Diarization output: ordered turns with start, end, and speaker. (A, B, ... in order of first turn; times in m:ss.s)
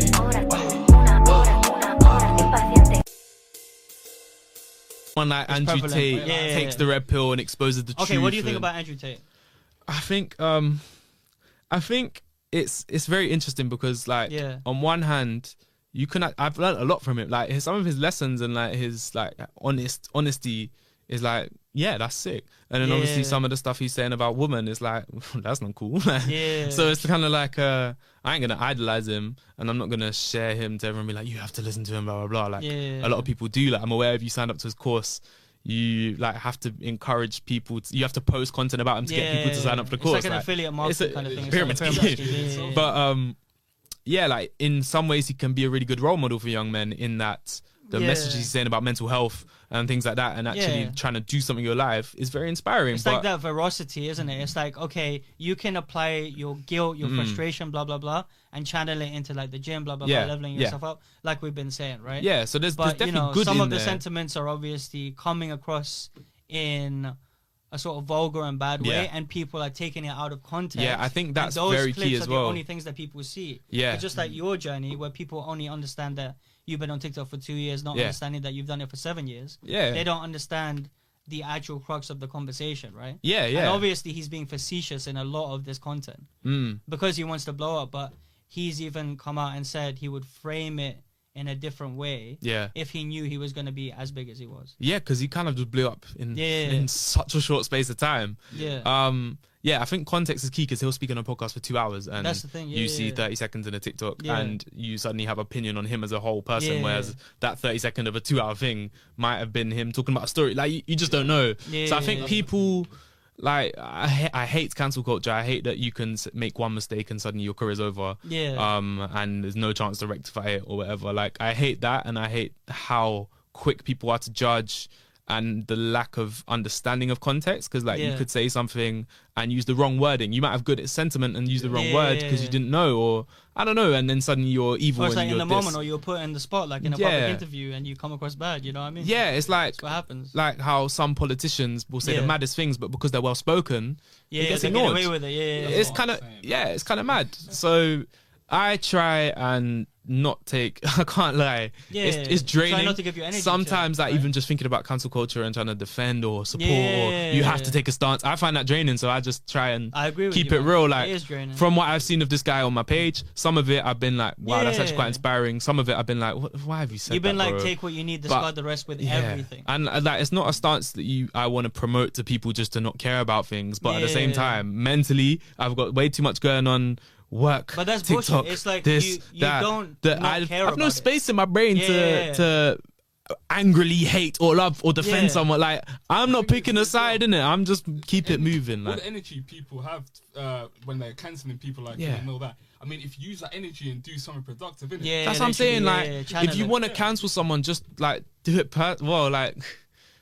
0:05.2-0:08.7 A
0:05.5-0:06.9 B
0:06.1-0:06.9 C
0:08.0-0:09.2 B
0:09.9-0:10.9 A
0:11.7-0:43.4 A
0:14.3-0:14.6 B
0:22.8-0:23.4 B
0:26.2-0:27.1 B
0:32.6-0:33.3 B
0:39.0-0:42.9 B
0:41.2-0:43.0 C
0:44.1-0:53.3 A
0:47.9-0:48.5 B
0:50.5-0:51.0 B
0:52.9-1:07.2 B
0:57.0-0:57.4 A
1:00.0-1:00.8 A
1:02.2-1:04.0 A
1:07.7-1:26.3 B
1:08.8-1:09.1 A
1:10.7-1:12.6 A
1:13.7-1:14.0 A
1:19.6-1:20.0 A
1:23.2-1:23.9 A
1:26.4-1:26.8 A
1:26.8-1:34.8 B
1:32.4-1:32.7 A
1:34.8-2:15.8 A
1:36.3-1:36.9 B
1:38.5-1:38.9 B
1:42.2-1:43.3 B
1:44.2-1:44.6 B
1:46.6-1:47.2 B
1:51.6-1:52.4 B
1:52.0-1:52.6 C
1:58.2-1:58.7 B
2:07.9-2:08.3 B
2:11.7-2:12.6 B
2:15.0-2:20.4 B
2:16.8-2:17.4 A
2:19.0-2:19.8 A
2:20.3-2:47.7 A
2:22.0-2:22.4 B
2:24.3-2:26.0 B
2:24.5-2:25.0 C
2:25.5-2:27.1 C
2:31.9-2:34.3 B
2:36.5-2:37.8 B
2:39.9-2:41.6 B
2:44.4-2:45.2 B
2:47.1-2:49.7 B
2:48.3-3:02.8 A
2:53.8-2:54.6 B
2:57.7-3:01.1 B
3:01.7-3:02.5 B
3:03.5-3:09.0 A
3:05.0-3:05.5 B
3:06.2-3:07.2 C
3:08.0-3:15.7 C
3:12.0-3:12.3 A
3:15.0-3:16.8 B
3:15.2-3:19.8 A
3:16.2-3:17.1 C